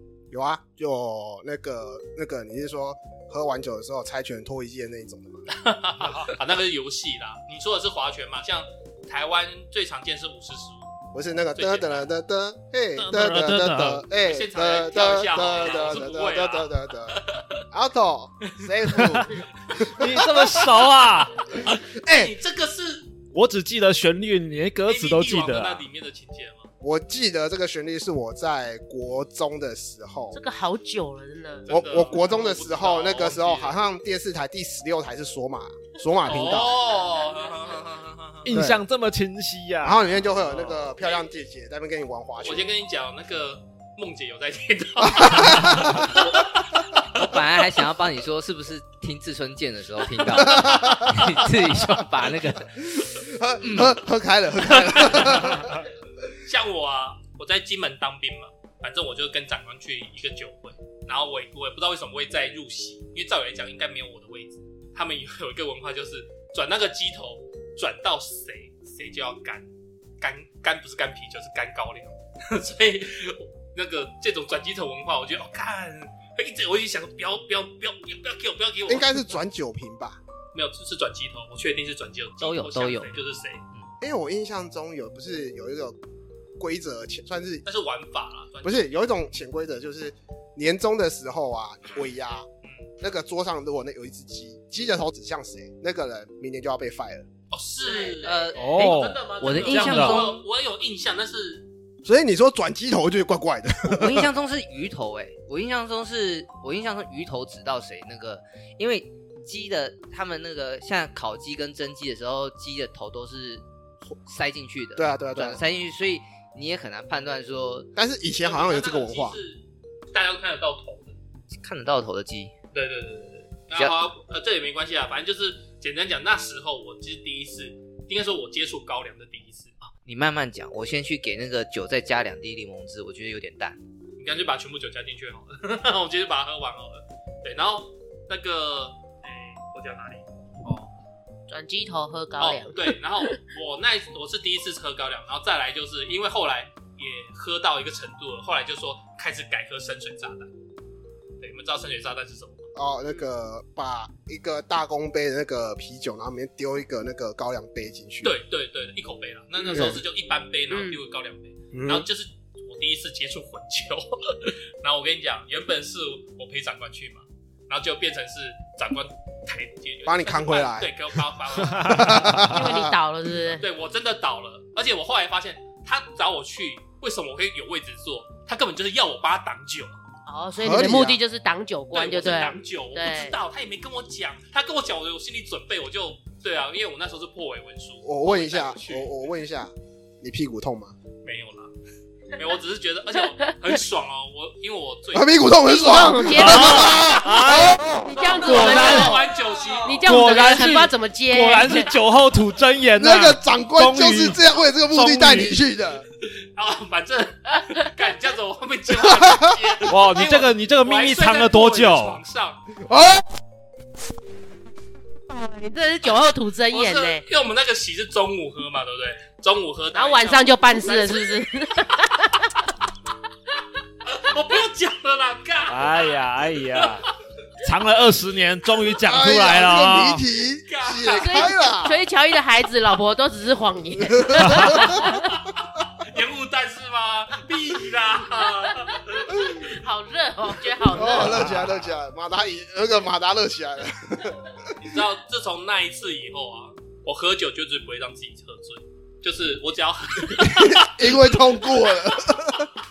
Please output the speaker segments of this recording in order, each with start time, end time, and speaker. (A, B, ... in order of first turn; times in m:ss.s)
0:00.3-0:05.4 A
0:05.5-0:10.9 B
0:06.0-0:06.3 C
0:11.1-0:20.5 A
0:11.6-0:12.1 B
0:13.0-0:14.0 C
0:14.2-0:17.6 B
0:18.9-0:21.4 C
0:21.5-0:23.1 B
0:21.6-0:22.3 A
0:23.3-0:25.8 C
0:24.8-0:26.7 B
0:26.8-0:30.4 A
0:30.3-0:31.7 D
0:31.6-0:33.8 B
0:31.7-0:36.8 A
0:36.2-0:38.5 B
0:38.4-0:40.0 C
0:38.5-0:38.8 A
0:39.8-0:42.7 A
0:40.2-0:41.2 B
0:42.4-0:46.5 B
0:45.0-0:46.2 A
0:47.1-0:52.8 E
0:50.4-0:51.2 A
0:52.8-0:55.7 A
0:53.6-0:54.0 E
0:54.7-0:55.7 B
0:56.4-1:09.7 B
1:10.2-1:19.3 B
1:18.9-1:20.2 A
1:20.5-1:23.6 B
1:22.4-1:23.1 E
1:24.0-1:26.0 A
1:26.6-1:27.6 A
1:27.6-1:28.9 B
1:28.6-1:32.5 A
1:32.6-1:32.9 B
1:33.0-1:37.3 A
1:37.5-1:41.6 B
1:37.8-1:38.6 D
1:38.2-1:40.4 E
1:38.6-1:40.3 C
1:42.0-1:44.3 A
1:43.8-1:53.6 E
1:54.2-1:57.9 E
1:55.0-1:55.6 A
1:58.0-1:59.4 A
1:58.4-2:01.2 B
2:01.6-2:02.5 E
2:02.7-2:09.7 B
2:09.8-2:13.8 E
2:14.2-2:20.9 B
2:21.5-2:23.3 D
2:22.4-2:30.5 B
2:31.4-2:32.7 B
2:32.8-2:38.4 A
2:38.2-2:52.2 B
2:39.6-2:40.0 A
2:40.7-2:41.0 D
2:41.7-2:42.1 A
2:50.0-2:50.9 A
2:51.6-2:52.5 C
2:51.8-2:52.9 A
2:52.5-2:53.6 D
2:53.6-3:00.0 B
3:00.2-3:03.4 D
3:00.6-3:01.2 A
3:01.9-3:09.1 B
3:08.0-3:10.9 A
3:11.2-3:11.7 B
3:12.3-3:15.4 B
3:15.1-3:17.7 A
3:15.6-3:17.1 D
3:16.4-3:19.2 C
3:16.7-3:17.0 B
3:18.0-3:19.2 D
3:18.4-3:20.2 B
3:19.8-3:21.9 D
3:20.0-3:24.4 C
3:23.0-3:26.0 A
3:24.9-3:25.6 C
3:26.2-3:32.6 B
3:29.1-3:29.8 A
3:29.9-3:32.2 C
3:32.8-3:33.3 A
3:35.3-3:37.2 D
3:36.7-3:41.5 B
3:39.9-3:42.6 D
3:44.0-3:46.1 B
3:45.7-3:47.1 C
3:46.8-3:47.1 B
3:47.6-3:50.2 C
3:49.0-3:52.0 A
3:50.7-3:51.5 B
3:51.1-3:55.4 D
3:54.1-3:54.9 A
3:54.6-3:59.7 B
3:58.7-4:01.4 D
4:00.8-4:01.7 B
4:00.9-4:04.7 A
4:01.1-4:01.7 C
4:04.8-4:12.6 B
4:10.4-4:12.7 A